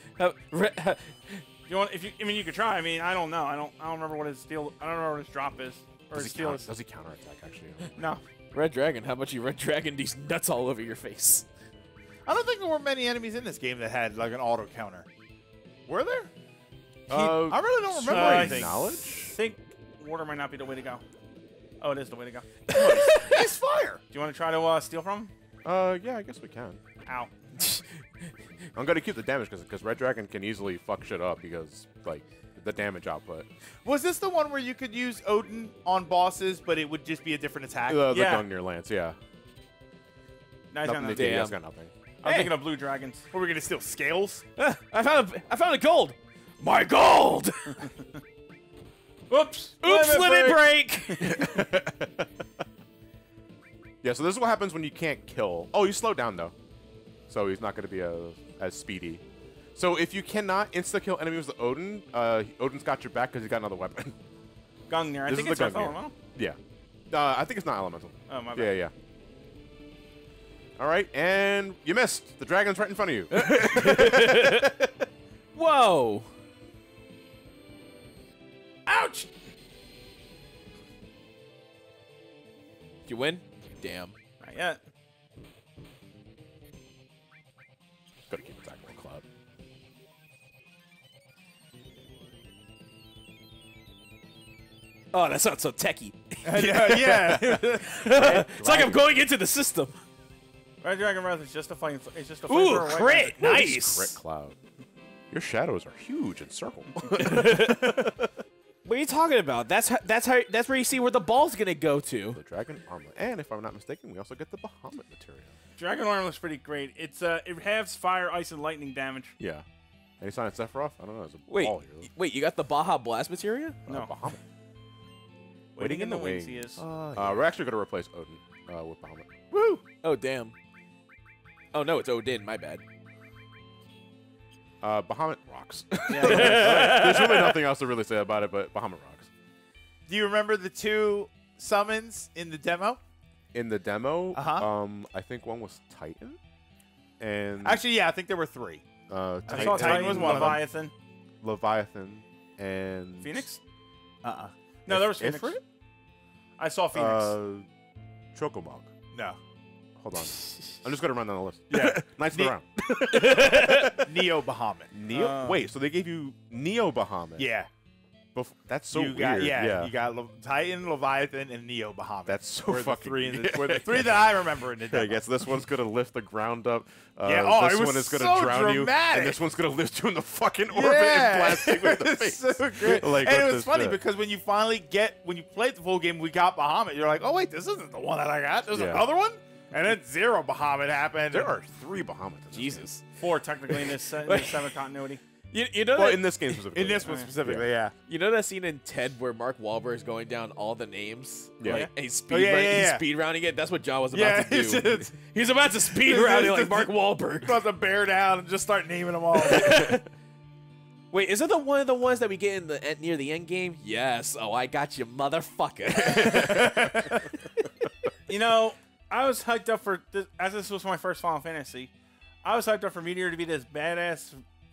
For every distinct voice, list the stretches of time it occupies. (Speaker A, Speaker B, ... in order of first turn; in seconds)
Speaker A: 0.2-1.5, 8.5-11.5, 22.7-23.5, 41.1-41.6, 42.2-42.5, 44.6-47.9, 49.8-51.5, 73.3-74.8, 75.5-76.3, 83.1-84.1, 95.1-100.0, 102.5-104.2, 107.2-108.0, 108.8-112.4, 121.5-123.8, 126.9-127.4, 129.5-130.5, 131.7-132.8, 136.1-137.6, 163.3-163.8, 192.5-193.0, 193.7-194.8, 195.5-196.6, 198.1-207.6, 209.4-210.0, 211.1-217.3
Speaker B: 1.7-6.7, 8.0-8.2, 18.1-21.0, 21.8-22.8, 24.1-25.3, 27.1-27.3, 38.1-38.5, 40.7-41.5, 42.2-43.2, 49.3-51.4, 64.9-66.1, 68.3-68.8, 78.9-79.3, 84.4-84.8, 100.8-103.4, 115.8-119.4, 125.8-126.8, 136.1-137.0, 149.5-150.9, 153.2-153.6, 154.9-155.6, 156.6-157.4, 193.2-195.2, 218.3-221.9, 222.4-224.4
Speaker C: 6.1-8.2, 17.1-19.4, 25.6-26.8, 28.7-33.5, 37.9-39.2, 40.8-41.9, 51.2-52.3, 54.0-56.5, 57.3-59.2, 59.8-64.2, 65.3-66.6, 67.1-68.9, 70.8-75.0, 88.3-89.2, 98.1-99.2, 103.3-104.6, 105.3-108.3, 112.3-115.6, 119.4-119.7, 120.2-122.1, 123.9-124.4, 125.8-129.5, 134.8-139.3, 143.5-146.4, 147.2-147.8, 149.1-150.7, 151.4-153.5, 154.9-155.6, 156.9-157.7, 158.3-158.9, 160.0-164.1, 164.9-167.5, 168.3-169.9, 172.3-184.0, 188.7-189.1, 191.3-192.9, 195.9-197.7, 201.6-201.9, 216.0-217.3
Speaker D: 12.3-15.1, 15.9-16.3, 17.1-18.8, 22.7-24.0, 33.8-38.2, 43.3-44.4, 96.4-98.1, 140.1-143.0, 144.3-144.7, 147.6-148.8, 149.5-150.6, 154.2-154.5, 159.1-159.4, 161.7-162.6, 163.9-165.6, 167.4-167.7, 168.9-175.4, 177.2-179.4, 180.7-191.6, 196.7-197.9, 202.3-203.1, 204.1-205.2, 205.9-210.0